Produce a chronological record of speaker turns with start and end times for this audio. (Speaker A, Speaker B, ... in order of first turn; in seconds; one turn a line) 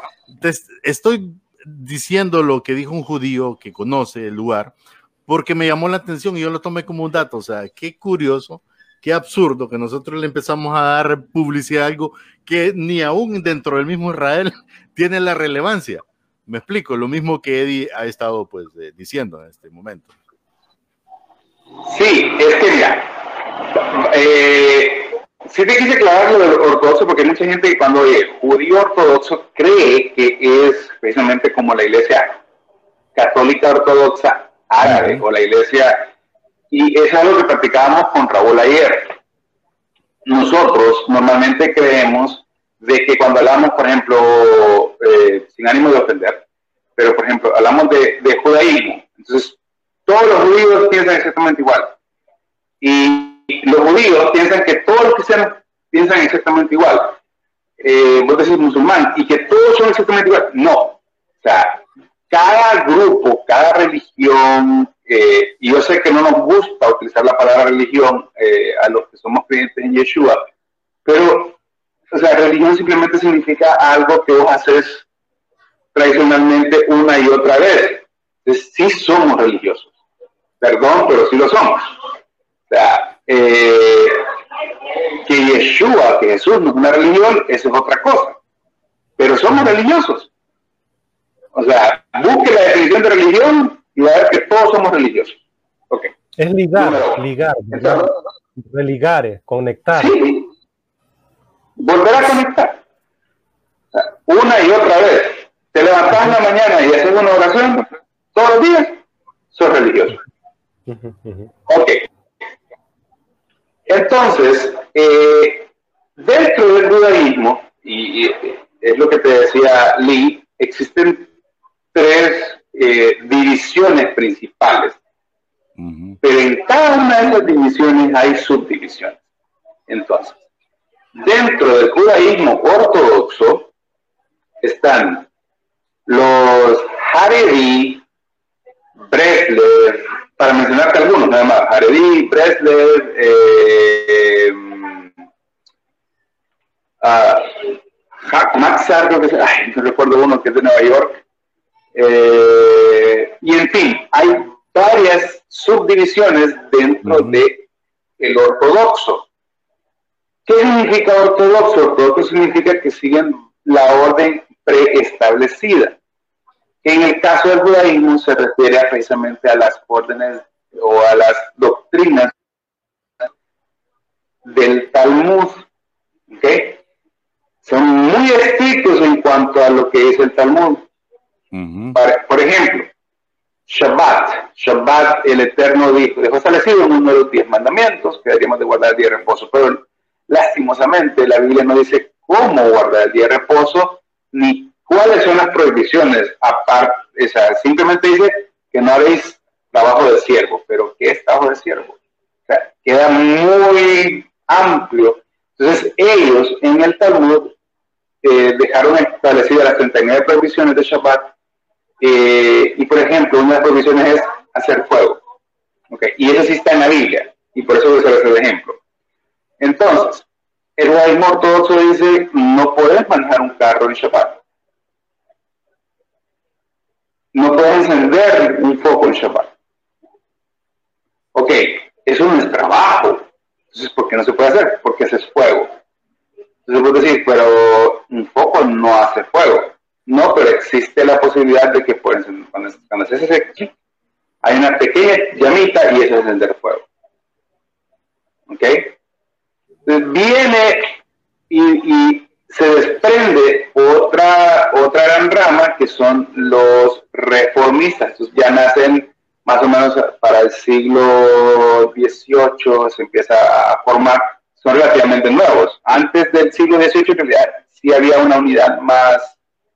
Speaker A: 0.4-4.7
Speaker A: 5.3-20.1
Speaker B: 21.9-32.4
Speaker B: 33.2-36.1
Speaker A: 34.8-35.2
Speaker B: 36.7-39.1
Speaker B: 40.2-46.4
Speaker B: 47.0-49.6
Speaker B: 50.1-51.9
Speaker B: 52.8-57.2
Speaker B: 57.8-70.5
Speaker B: 71.0-71.6
Speaker B: 72.1-75.0
Speaker B: 75.9-79.9
Speaker B: 80.6-81.9
Speaker B: 82.7-84.2
Speaker B: 85.2-88.4
Speaker B: 89.2-90.3
Speaker B: 91.5-95.4
Speaker C: 96.4-100.2
Speaker B: 96.8-98.1
Speaker B: 100.0-100.5
Speaker B: 101.8-102.8
Speaker B: 104.0-109.0
Speaker B: 109.5-110.2
Speaker C: 110.9-111.5
Speaker B: 111.7-112.0
Speaker B: 113.9-121.3
Speaker B: 121.9-125.0
Speaker A: 125.8-126.2
Speaker B: 126.2-129.2
Speaker B: 129.9-130.4
Speaker B: 131.2-133.7
Speaker B: 134.6-135.2
Speaker B: 136.1-138.0
Speaker B: 139.1-145.1
Speaker B: 147.0-151.2
Speaker B: 151.9-157.6
Speaker A: 157.1-157.4
Speaker B: 158.2-159.2
Speaker B: 160.5-166.0
Speaker B: 166.8-172.3
Speaker B: 174.4-175.6
Speaker B: 176.3-176.8
Speaker B: 177.6-180.8
Speaker A: 181.5-182.0
Speaker B: 181.9-182.9
Speaker B: 183.7-202.0
Speaker B: 202.5-207.5
Speaker B: 208.2-211.3
Speaker B: 212.0-215.2
Speaker B: 215.9-218.8
Speaker B: 219.6-220.2
Speaker B: 220.8-224.4
Speaker B: 227.3-229.5
Speaker B: 231.3-235.7
Speaker B: 236.7-243.7
Speaker B: 244.4-246.8
Speaker B: 248.5-248.9
Speaker B: 249.9-250.9
Speaker B: 251.5-269.4